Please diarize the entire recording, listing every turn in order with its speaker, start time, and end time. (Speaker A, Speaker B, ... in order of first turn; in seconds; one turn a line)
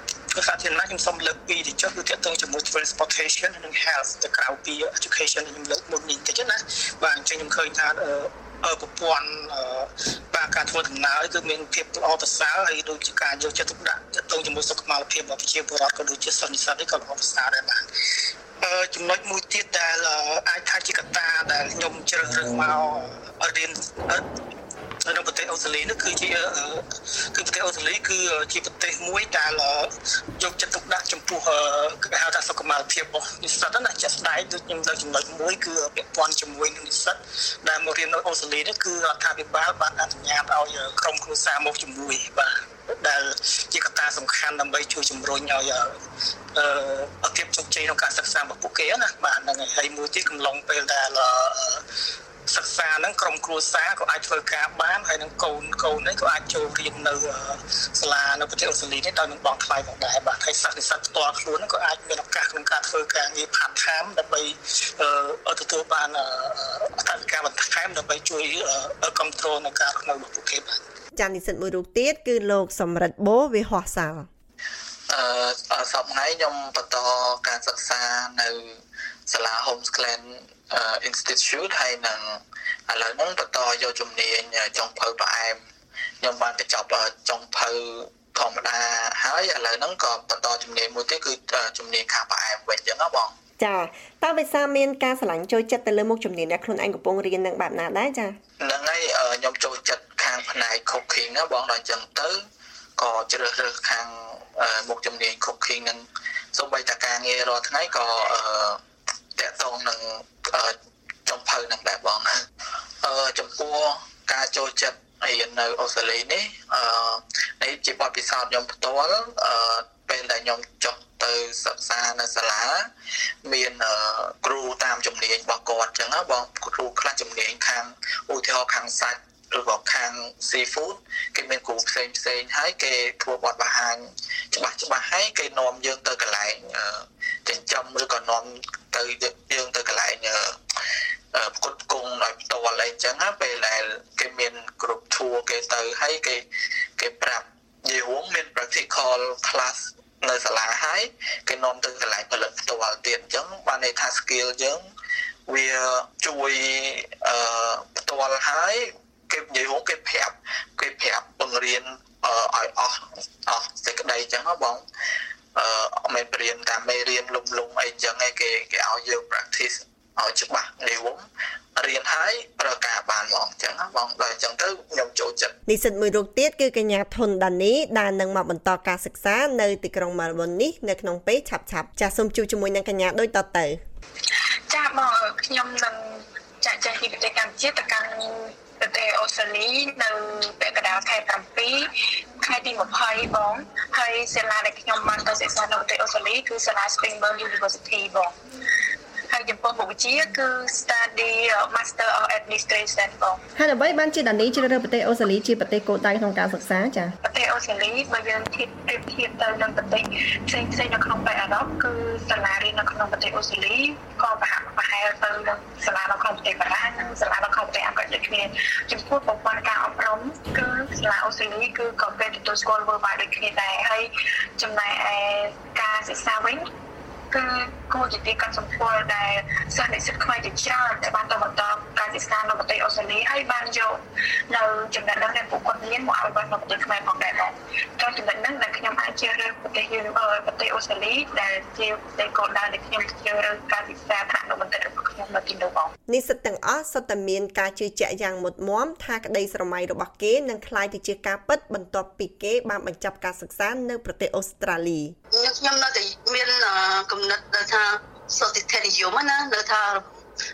Speaker A: 0.3-17.8
Speaker A: 18.6-24.2
Speaker A: 25.1-45.9
Speaker A: 46.5-51.8
Speaker A: 52.5-70.8
Speaker B: 71.2-74.3
Speaker C: 75.1-78.7
Speaker C: 79.3-85.6
Speaker C: 86.2-93.3
Speaker B: 93.6-98.4
Speaker C: 98.6-102.4
Speaker C: 103.0-108.8
Speaker C: 109.4-110.7
Speaker C: 111.3-112.3
Speaker C: 113.0-122.9
Speaker C: 123.5-140.5
Speaker C: 141.3-146.4
Speaker C: 147.0-154.8
Speaker C: 155.5-164.8
Speaker C: 165.6-171.2
Speaker C: 171.8-175.5
Speaker B: 175.7-183.8
Speaker D: 184.7-191.9
Speaker D: 192.4-198.3
Speaker D: 199.3-203.4
Speaker B: 203.6-207.1
Speaker D: 207.2-226.7
Speaker D: 227.3-234.0
Speaker D: 234.5-245.9
Speaker B: 246.1-255.2
Speaker E: 255.3-260.1